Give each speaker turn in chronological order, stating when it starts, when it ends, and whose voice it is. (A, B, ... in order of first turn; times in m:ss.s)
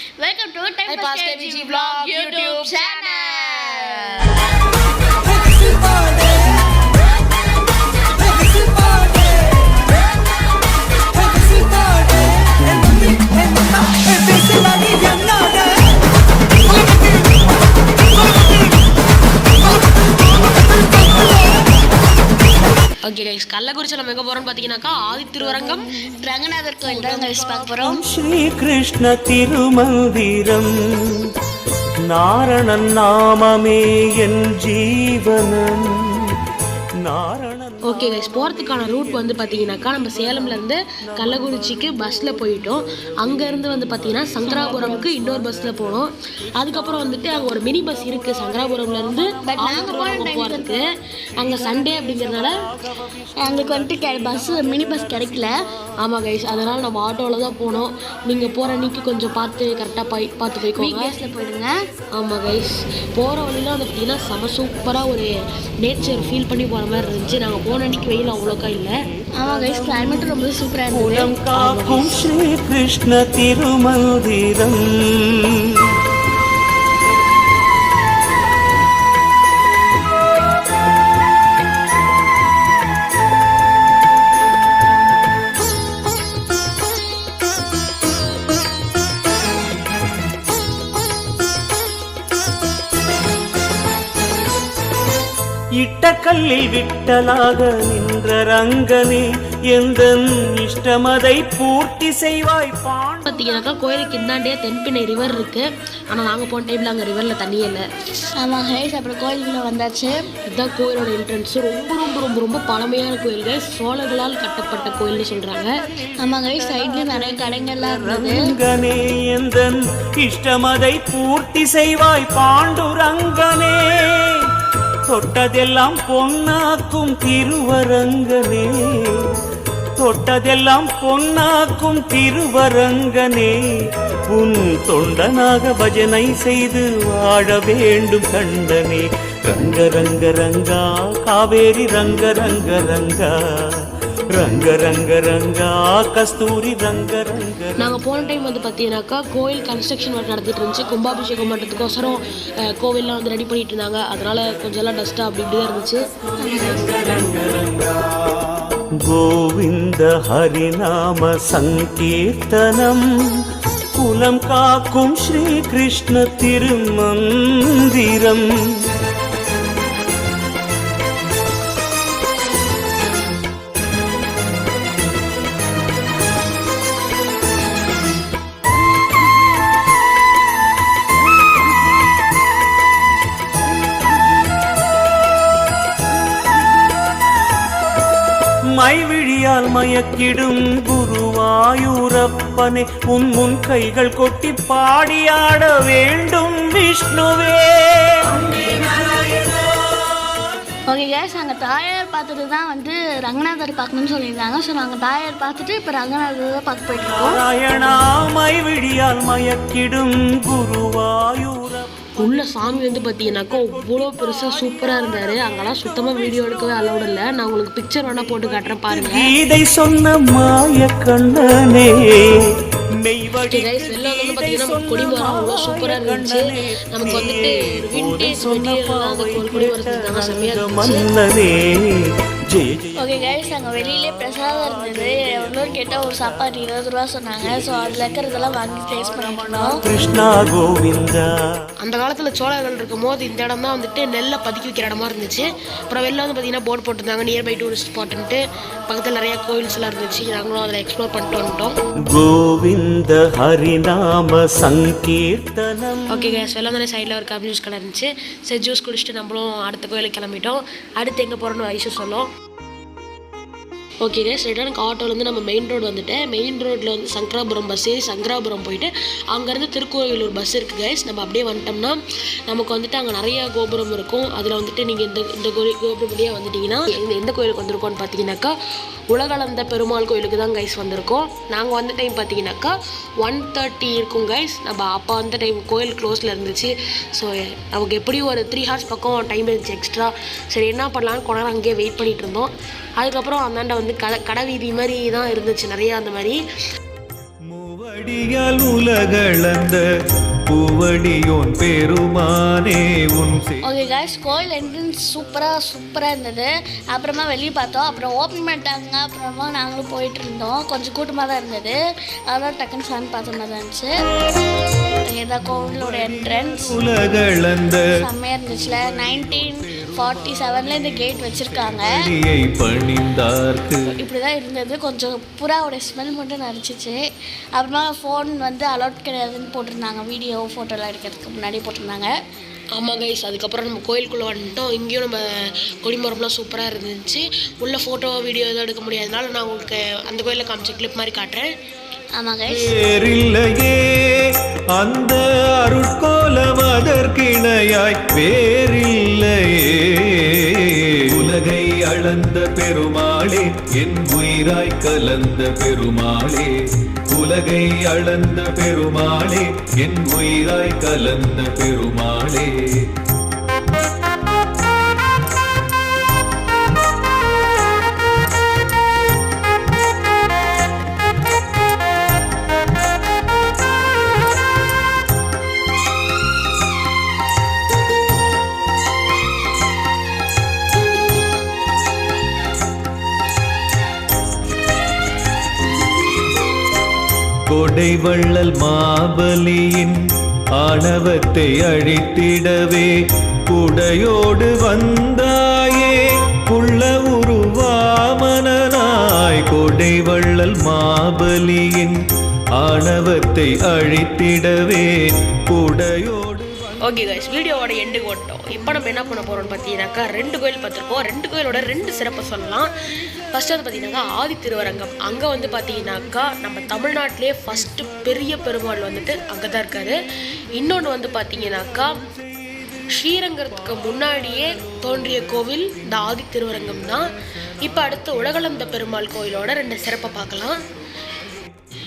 0:00.2-0:04.4 A
0:00.9-0:03.3 B
0:23.0-0:25.8 B
0:26.2-0:28.0 A
0:26.9-0:31.3 C
0:32.0-0:36.3 C
0:37.0-0:39.3 C
0:37.9-0:50.8 B
0:41.2-0:41.5 C
0:44.4-0:45.1 A
0:49.4-0:50.8 A
0:51.4-0:52.6 B
0:53.4-0:55.5 A
0:56.0-1:01.1 B
1:00.7-1:01.8 A
1:02.2-1:05.3 B
1:05.8-1:09.0 B
1:09.4-1:11.3 A
1:09.4-1:10.4 C
1:10.9-1:16.0 C
1:11.5-1:12.2 B
1:35.8-1:43.4 C
1:43.3-1:47.8 B
1:48.4-1:50.2 A
1:50.5-1:55.7 B
1:55.9-2:04.5 C
1:56.2-1:58.5 A
2:05.1-2:09.4 C
2:10.0-2:13.6 C
2:14.3-2:23.4 C
2:24.4-2:28.0 C
2:27.8-2:36.0 B
2:36.4-2:36.9 A
2:36.6-2:38.1 C
2:39.0-2:43.4 C
2:44.0-2:49.0 C
3:08.8-3:20.4 C
3:20.9-3:27.4 A
3:27.0-3:31.9 C
3:32.2-3:39.3 B
3:38.9-3:56.6 C
3:43.5-3:51.1 B
3:53.0-3:59.8 A
3:57.4-4:01.3 C
4:01.8-4:11.8 B
4:12.1-4:16.4 C
4:16.1-4:22.3 B
4:24.0-4:38.5 B
4:39.1-4:56.4 B
4:57.5-4:59.8 D
5:00.5-5:03.7 D
5:03.6-5:11.8 A
5:12.3-5:13.9 A
5:15.1-5:16.8 A
5:16.6-5:17.9 D
5:18.0-5:21.9 A
5:20.4-5:23.8 D
5:23.9-5:27.0 A
5:27.6-5:32.1 A
5:32.7-5:35.2 B
5:35.8-5:41.5 B
5:42.2-5:42.7 A
5:42.5-5:56.5 D
5:57.1-6:02.9 D
6:27.5-6:30.0 D
6:30.6-6:32.9 D
6:33.5-6:42.0 D
6:42.6-6:44.9 D
6:45.5-6:46.8 D
6:46.8-6:52.7 B
6:53.3-7:00.0 B
7:00.6-7:01.9 B
7:02.9-7:07.1 B
7:07.6-7:10.6 B